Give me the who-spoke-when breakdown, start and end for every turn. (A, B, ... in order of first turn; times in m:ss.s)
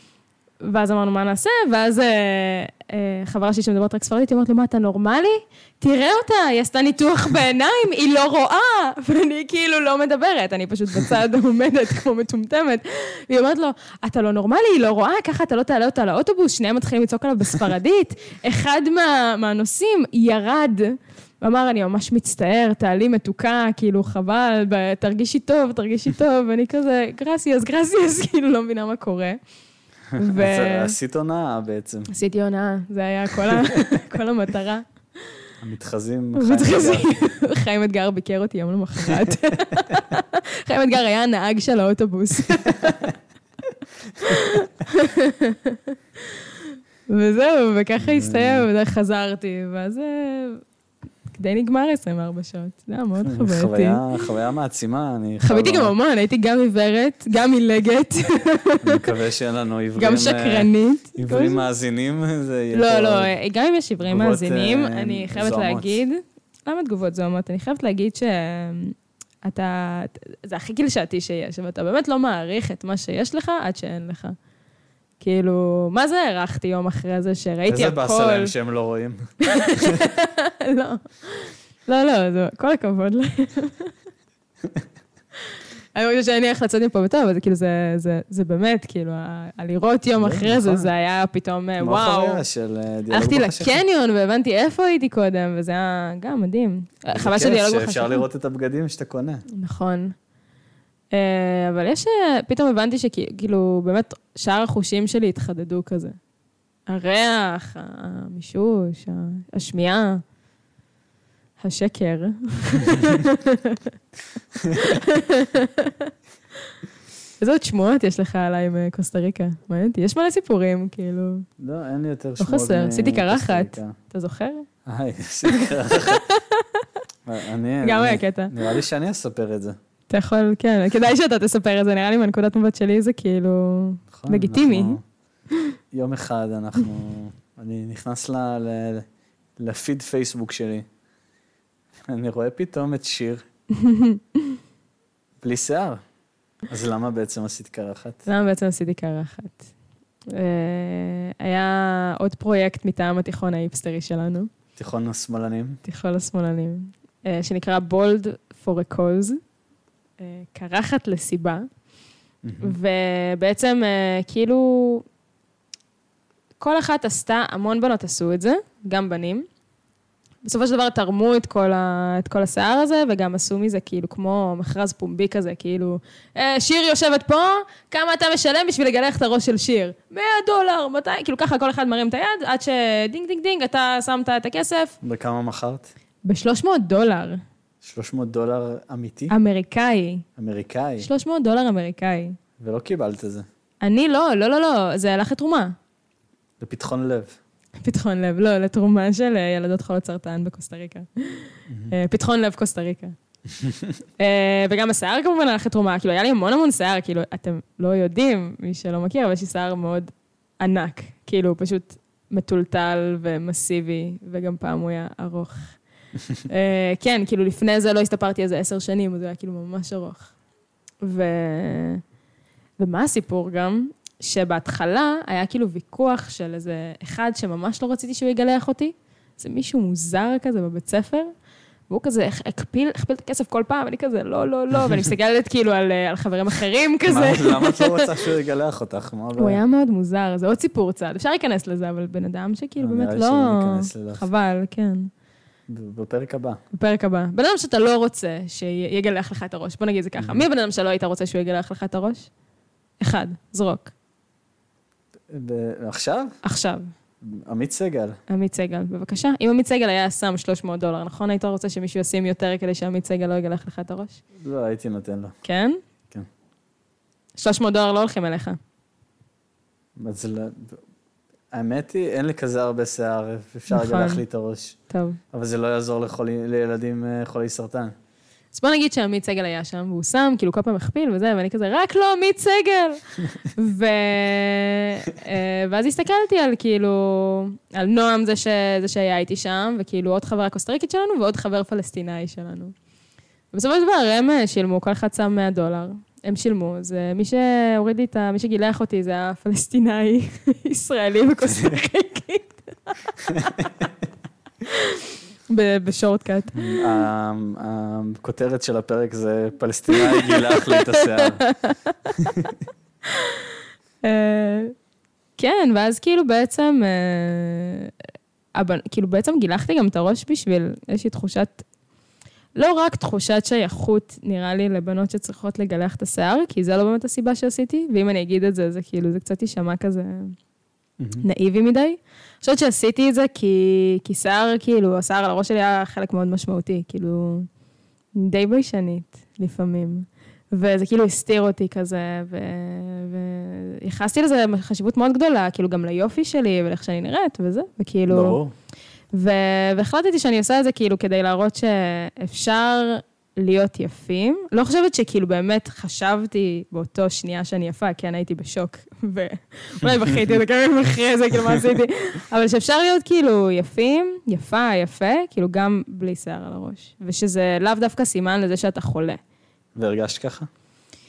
0:00.6-0:29.4 A
0:30.1-0:32.1 B
0:30.2-0:30.9 A
0:32.1-0:34.9 A
0:33.4-0:33.8 B
0:35.6-0:37.2 B
0:36.4-0:43.1 A
0:44.2-0:46.4 A
0:47.1-0:50.6 A
0:48.0-0:48.7 B
0:51.3-0:54.0 A
0:53.2-0:55.9 B
0:55.4-0:59.0 A
0:58.8-1:03.3 B
1:00.0-1:01.6 A
1:02.7-1:14.4 A
1:04.0-1:06.0 B
1:15.2-1:18.5 A
1:17.7-1:20.0 B
1:19.4-1:23.9 A
1:26.0-1:32.4 A
1:30.2-1:30.9 B
1:31.8-1:33.7 B
1:33.1-1:38.2 A
1:37.1-1:39.4 B
1:39.5-1:40.1 A
1:41.1-1:46.2 A
1:46.9-1:50.2 A
1:51.6-1:53.9 A
1:54.6-1:55.0 B
1:54.8-1:56.1 A
1:57.4-2:01.4 A
2:01.6-2:03.9 B
2:02.4-2:04.7 A
2:04.8-2:06.2 B
2:05.5-2:06.8 A
2:07.2-2:09.8 B
2:07.8-2:08.8 A
2:10.1-2:15.0 A
2:14.1-2:15.0 B
2:15.9-2:19.0 B
2:19.6-2:20.8 B
2:22.0-2:23.4 B
2:23.7-2:24.6 A
2:25.4-2:26.0 B
2:26.7-2:28.2 B
2:28.2-2:29.7 A
2:30.3-2:34.5 A
2:34.8-2:35.8 B
2:35.8-2:39.4 A
2:40.2-2:41.6 A
2:42.4-2:42.8 B
2:42.6-2:45.0 A
2:46.6-2:49.4 A
2:50.4-3:05.0 A
3:05.0-3:05.9 B
3:06.2-3:07.4 A
3:07.8-3:09.3 B
3:09.3-3:10.2 A
3:10.4-3:11.1 B
3:11.0-3:12.4 A
3:12.6-3:13.4 B
3:13.8-3:15.7 A
3:16.6-3:17.4 B
3:17.8-3:23.2 A
3:21.7-3:21.9 B
3:23.6-3:24.0 B
3:24.2-3:35.8 A
3:36.5-3:40.3 A
3:41.0-3:42.0 A
3:42.8-3:51.3 A
3:51.9-3:58.3 A
3:54.8-3:55.1 B
3:57.1-3:59.6 B
3:59.4-4:05.1 A
4:02.8-4:04.2 B
4:05.7-4:06.6 B
4:06.7-4:12.3 A
4:13.0-4:13.9 A
4:15.3-4:16.4 B
4:16.4-4:16.9 A
4:17.2-4:18.2 B
4:18.3-4:24.2 A
4:24.4-4:25.4 B
4:25.4-4:25.8 A
4:27.4-4:28.6 A
4:30.0-4:30.8 B
4:31.5-4:34.8 B
4:33.7-4:34.2 A
4:34.9-4:35.2 A
4:35.3-4:37.9 B
4:38.5-4:52.7 A
4:53.5-5:03.1 A
5:01.5-5:01.8 B
5:03.3-5:03.8 B
5:04.7-5:06.9 A
5:06.5-5:11.4 B
5:09.9-5:12.2 A
5:12.2-5:12.5 B
5:13.1-5:13.5 A
5:14.0-5:14.7 A
5:15.4-5:17.9 A
5:18.5-5:21.6 A
5:22.6-5:30.3 A
5:31.0-5:31.2 B
5:31.2-5:37.5 A
5:38.2-5:48.4 A
5:48.1-5:48.5 B
5:49.1-6:09.2 A
5:59.8-6:00.1 B
6:09.7-6:10.5 B